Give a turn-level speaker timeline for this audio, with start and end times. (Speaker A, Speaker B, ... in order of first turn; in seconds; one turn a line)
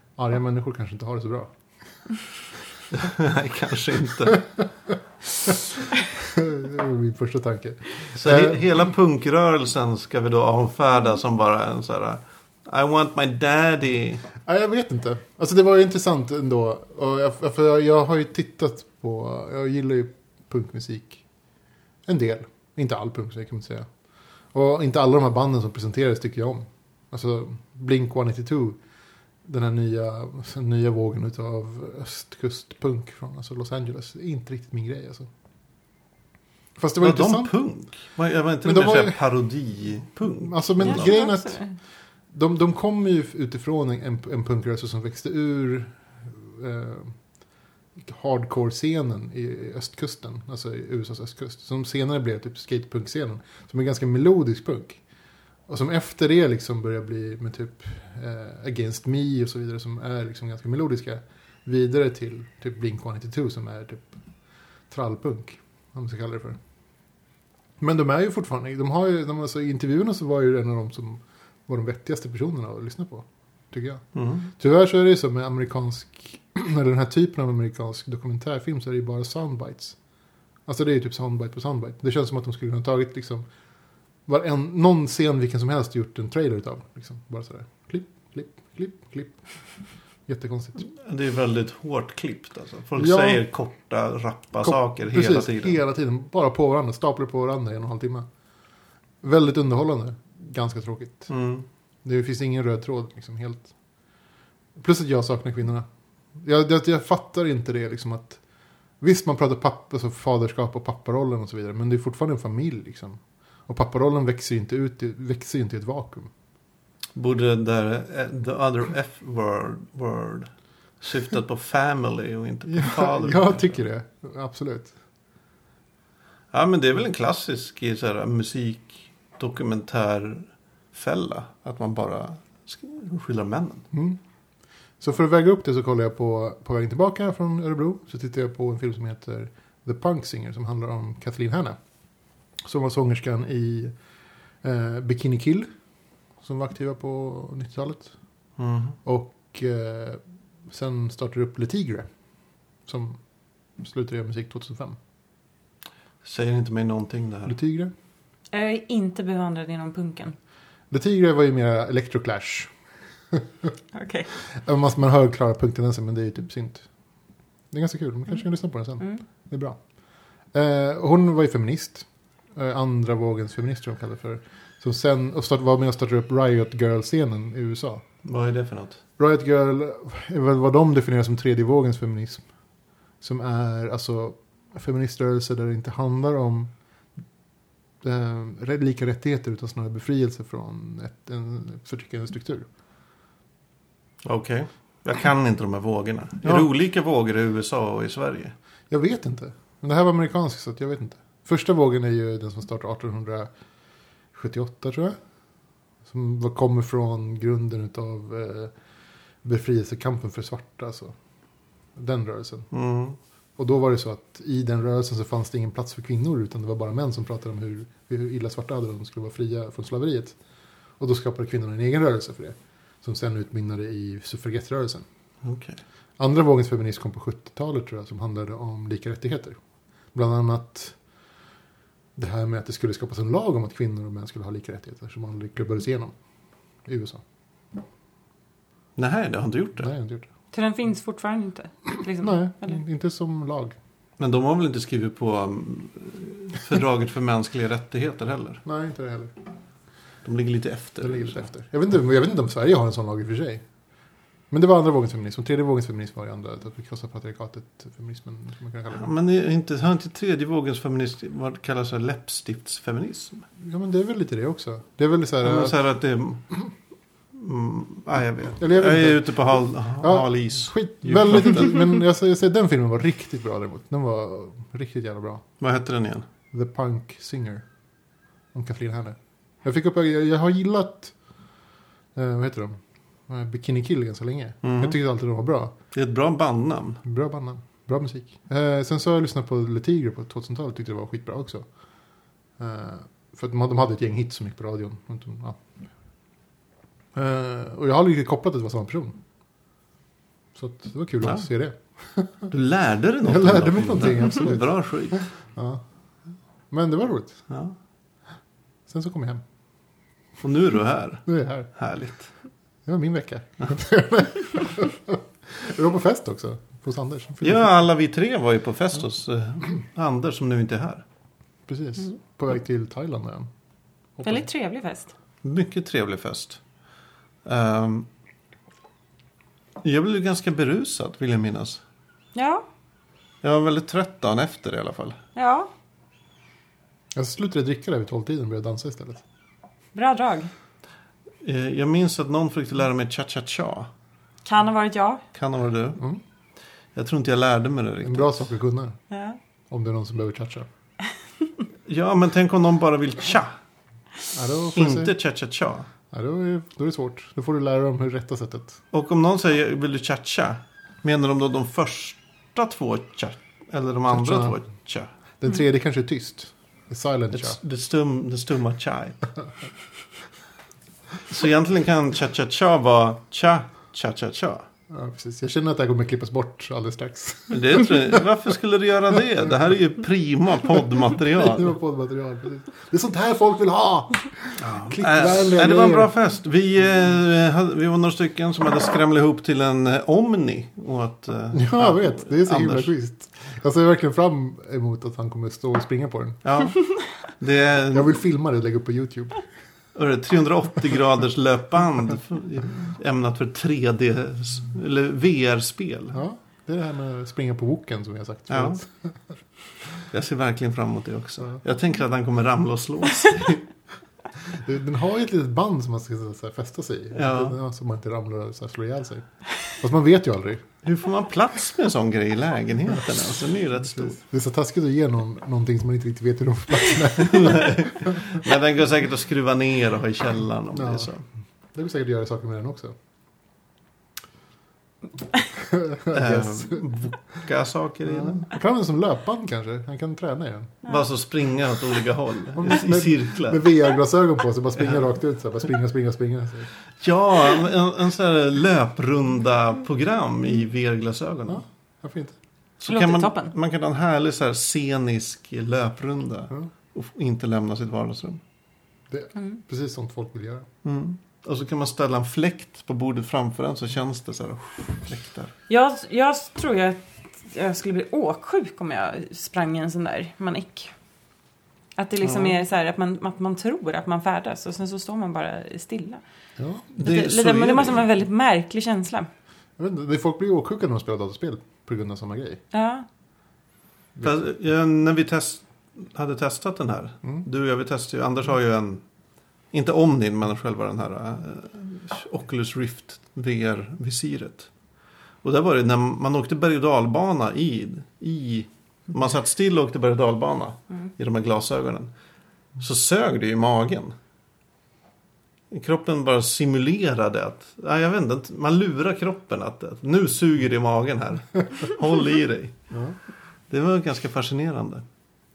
Speaker A: 0.2-1.5
Speaker B: 2.9-4.4
Speaker A: 6.1-8.6
Speaker B: 8.1-14.3
Speaker A: 14.4-21.2
Speaker A: 22.1-23.9
Speaker A: 24.5-28.8
Speaker A: 29.4-35.3
Speaker A: 36.8-37.5
Speaker B: 37.0-41.1
Speaker A: 38.6-39.2
Speaker A: 40.2-41.6
Speaker C: 40.9-41.8
Speaker A: 42.3-47.2
Speaker A: 48.0-55.0
Speaker A: 55.7-64.2
Speaker A: 64.9-66.6
Speaker A: 67.8-74.0
Speaker B: 74.2-74.5
Speaker A: 74.6-80.0
Speaker A: 80.7-83.5
Speaker A: 84.3-90.8
Speaker B: 90.9-95.8
Speaker A: 93.0-93.4
Speaker A: 94.6-98.3
Speaker A: 99.2-101.3
Speaker B: 101.3-101.7
Speaker A: 102.0-103.7
Speaker A: 104.8-105.9
Speaker A: 106.4-108.4
Speaker A: 109.0-116.3
Speaker B: 117.2-123.8
Speaker A: 122.7-124.9
Speaker B: 126.5-133.9
Speaker A: 133.9-134.2
Speaker A: 135.0-141.8
Speaker A: 142.6-143.9
Speaker A: 144.6-145.7
Speaker A: 146.4-148.1
Speaker B: 148.6-149.0
Speaker A: 149.1-152.1
Speaker A: 152.9-153.2
Speaker A: 153.8-155.0
Speaker B: 156.2-157.5
Speaker A: 157.5-157.9
Speaker C: 158.5-160.4
Speaker A: 160.9-162.7
Speaker A: 163.3-163.7
Speaker C: 163.9-164.3
Speaker A: 164.5-166.9
Speaker A: 167.7-169.8
Speaker A: 170.5-178.0
Speaker B: 178.2-179.0
Speaker A: 179.2-182.4
Speaker A: 183.2-186.7
Speaker A: 188.0-192.7
Speaker B: 194.2-198.6
Speaker A: 196.4-196.7
Speaker A: 198.9-203.5
Speaker A: 204.3-205.2
Speaker A: 206.1-208.7
Speaker A: 209.4-211.2
Speaker A: 212.0-212.7
Speaker B: 212.7-213.2
Speaker A: 213.6-220.4
Speaker A: 221.0-225.1
Speaker B: 225.4-225.8
Speaker A: 226.2-229.6
Speaker A: 230.1-231.0
Speaker A: 232.2-236.2
Speaker A: 236.9-237.2
Speaker B: 239.0-239.9
Speaker A: 239.8-240.3
Speaker C: 240.5-242.8
Speaker A: 242.2-243.8
Speaker B: 244.2-248.6
Speaker A: 248.7-249.3
Speaker B: 250.2-251.4
Speaker A: 251.0-253.6
Speaker A: 254.5-259.1
Speaker B: 258.9-263.5
Speaker A: 263.6-265.8
Speaker B: 265.4-266.7
Speaker B: 267.3-271.9
Speaker A: 268.6-275.4
Speaker B: 275.6-276.3
Speaker A: 276.5-277.6
Speaker A: 278.5-281.1
Speaker A: 282.1-285.7
Speaker B: 284.6-285.0
Speaker B: 285.9-287.0
Speaker A: 287.0-291.7
Speaker A: 292.6-295.6
Speaker A: 297.1-299.2
Speaker A: 300.6-302.5
Speaker B: 302.5-305.3
Speaker A: 303.2-305.8
Speaker A: 306.7-307.4
Speaker A: 308.9-309.4
Speaker B: 310.4-312.3
Speaker A: 311.3-311.7
Speaker A: 312.9-317.7
Speaker B: 317.4-321.0
Speaker A: 321.7-323.5
Speaker A: 324.2-324.5
Speaker C: 324.2-325.1
Speaker B: 325.4-326.6
Speaker B: 327.4-328.1
Speaker B: 329.8-331.8
Speaker C: 332.4-332.6
Speaker B: 333.4-335.2
Speaker C: 335.4-335.7
Speaker A: 337.1-339.2
Speaker C: 339.9-340.5
Speaker B: 341.4-343.9
Speaker C: 344.5-345.2
Speaker B: 345.3-346.0
Speaker B: 346.9-348.3
Speaker A: 348.0-349.0
Speaker C: 349.1-349.4
Speaker A: 349.7-350.7
Speaker B: 351.9-353.5
Speaker A: 354.3-355.1
Speaker B: 354.7-355.9
Speaker A: 356.1-358.8
Speaker B: 358.9-365.1
Speaker A: 364.1-364.6
Speaker A: 365.4-367.6
Speaker B: 367.3-369.3
Speaker B: 371.3-374.7
Speaker A: 374.9-378.2
Speaker B: 377.5-381.7
Speaker A: 381.2-386.1
Speaker B: 384.6-392.9
Speaker A: 391.5-396.7
Speaker B: 396.4-398.2
Speaker A: 397.9-399.4
Speaker B: 399.9-406.2
Speaker A: 406.1-409.2
Speaker B: 408.5-408.8
Speaker B: 410.1-413.7
Speaker A: 414.5-420.7
Speaker B: 417.1-417.6
Speaker B: 420.8-424.2
Speaker A: 423.9-428.2
Speaker B: 427.2-431.2
Speaker A: 430.7-431.1
Speaker A: 431.7-432.9
Speaker A: 435.6-436.8
Speaker B: 436.1-438.6
Speaker A: 438.1-440.8
Speaker B: 440.9-443.8
Speaker A: 442.6-446.7
Speaker B: 447.0-451.6
Speaker A: 451.5-452.4
Speaker B: 452.8-458.4
Speaker C: 452.9-453.5
Speaker A: 459.1-460.7
Speaker B: 460.8-465.5
Speaker C: 465.7-470.9
Speaker C: 472.0-476.2
Speaker B: 472.2-472.6
Speaker A: 476.6-476.9
Speaker B: 476.9-478.1
Speaker C: 477.0-479.3
Speaker A: 479.8-482.6
Speaker C: 482.7-483.1
Speaker B: 484.2-489.0
Speaker B: 489.7-494.7
Speaker B: 495.4-502.1
Speaker B: 502.8-504.1
Speaker B: 505.7-512.8
Speaker A: 512.9-513.2
Speaker B: 513.7-515.0